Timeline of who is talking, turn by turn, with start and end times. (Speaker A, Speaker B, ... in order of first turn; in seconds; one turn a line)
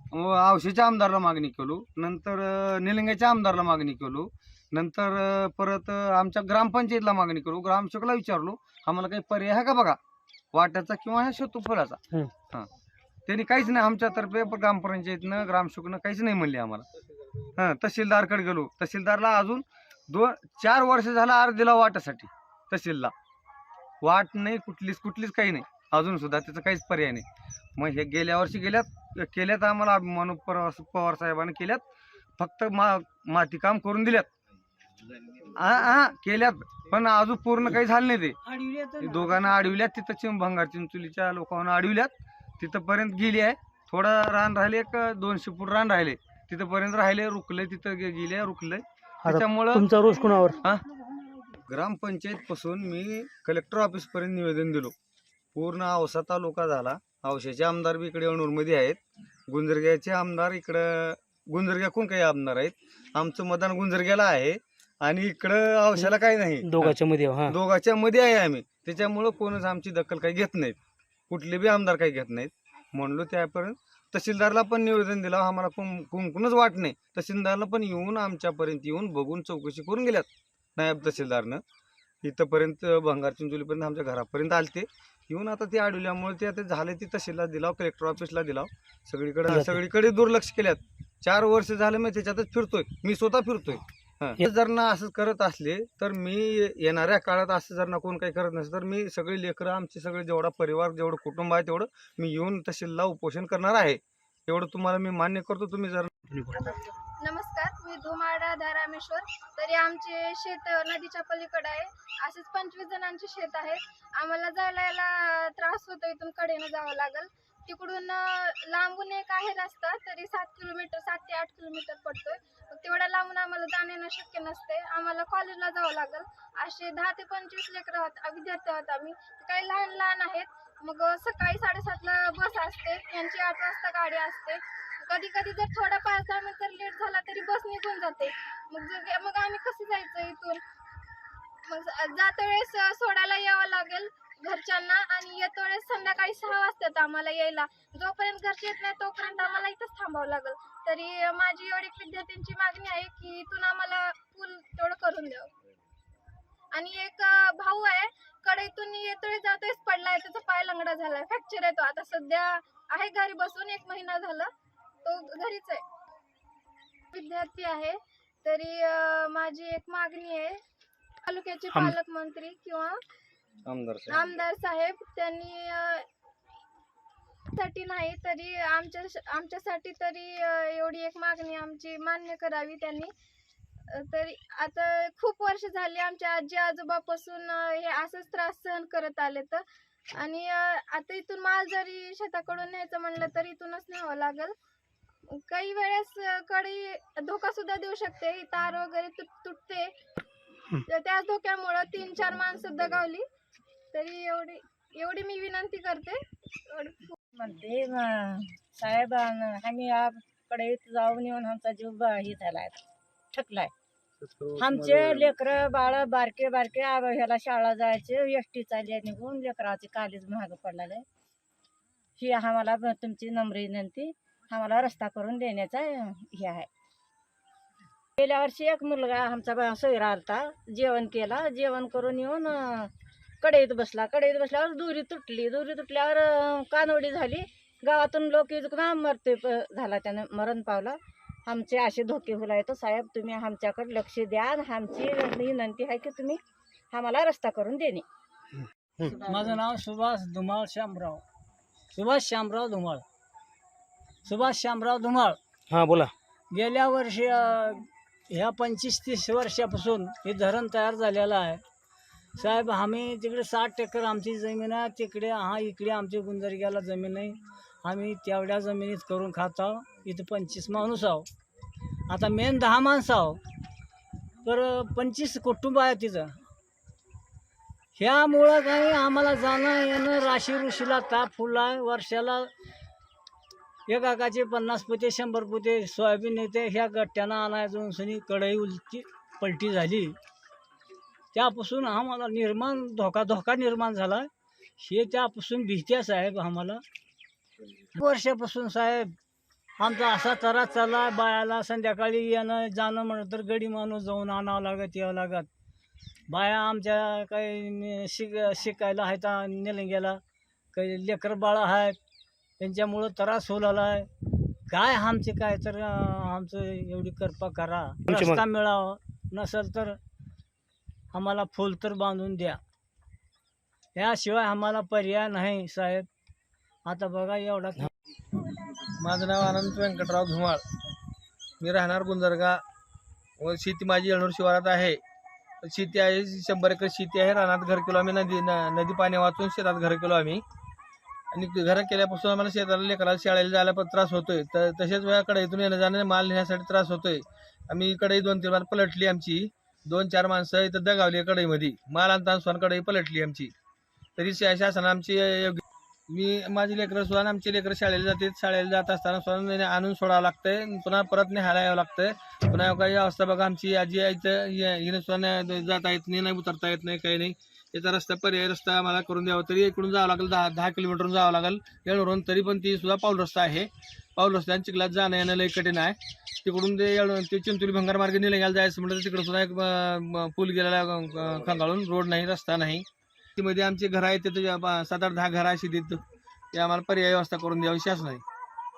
Speaker A: 0.1-10.0
Speaker A: 10.5-12.7
Speaker A: 13.3-16.9
Speaker A: 17.6-23.1
Speaker A: 24.0-27.2
Speaker A: 27.8-31.8
Speaker A: 32.4-34.3
Speaker A: 35.5-38.4
Speaker B: 38.4-39.8
Speaker A: 39.0-50.0
Speaker C: 49.2-50.5
Speaker A: 50.5-50.8
Speaker A: 51.7-54.9
Speaker A: 55.5-70.8
Speaker C: 66.7-67.5
Speaker A: 71.3-81.6
Speaker A: 82.2-106.1
Speaker D: 106.5-140.6
Speaker D: 141.7-155.5
Speaker D: 156.7-164.5
Speaker D: 165.1-165.8
Speaker D: 167.1-170.6
Speaker D: 171.2-173.0
Speaker A: 173.7-174.2
Speaker D: 174.1-176.1
Speaker D: 177.6-183.1
Speaker D: 184.0-189.6
Speaker D: 190.2-194.5
Speaker D: 195.5-199.9
Speaker D: 200.8-203.2
Speaker D: 203.9-207.2
Speaker E: 207.3-212.8
Speaker E: 213.3-213.7
Speaker F: 214.2-215.3
Speaker E: 214.6-221.1
Speaker E: 222.2-226.7
Speaker E: 228.2-232.9
Speaker E: 233.4-246.4
Speaker E: 246.9-248.0
Speaker E: 249.1-249.5
Speaker B: 249.2-251.2
Speaker B: 251.9-253.0
Speaker B: 254.2-255.4
Speaker C: 255.7-256.1
Speaker B: 256.5-261.6
Speaker B: 262.4-271.3
Speaker B: 272.1-273.4
Speaker B: 274.4-276.4
Speaker B: 278.0-282.5
Speaker B: 283.9-290.1
Speaker B: 291.3-296.8
Speaker B: 297.9-299.1
Speaker B: 299.8-305.5
Speaker B: 306.3-310.2
Speaker B: 310.7-312.0
Speaker B: 312.6-314.1
Speaker B: 314.7-320.0
Speaker C: 318.1-318.4
Speaker B: 321.1-322.6
Speaker B: 323.9-326.1
Speaker B: 326.9-327.9
Speaker F: 329.0-330.6
Speaker F: 331.6-332.6
Speaker F: 333.4-335.0
Speaker F: 335.6-340.4
Speaker F: 341.3-353.5
Speaker F: 354.2-386.0
Speaker F: 386.5-388.2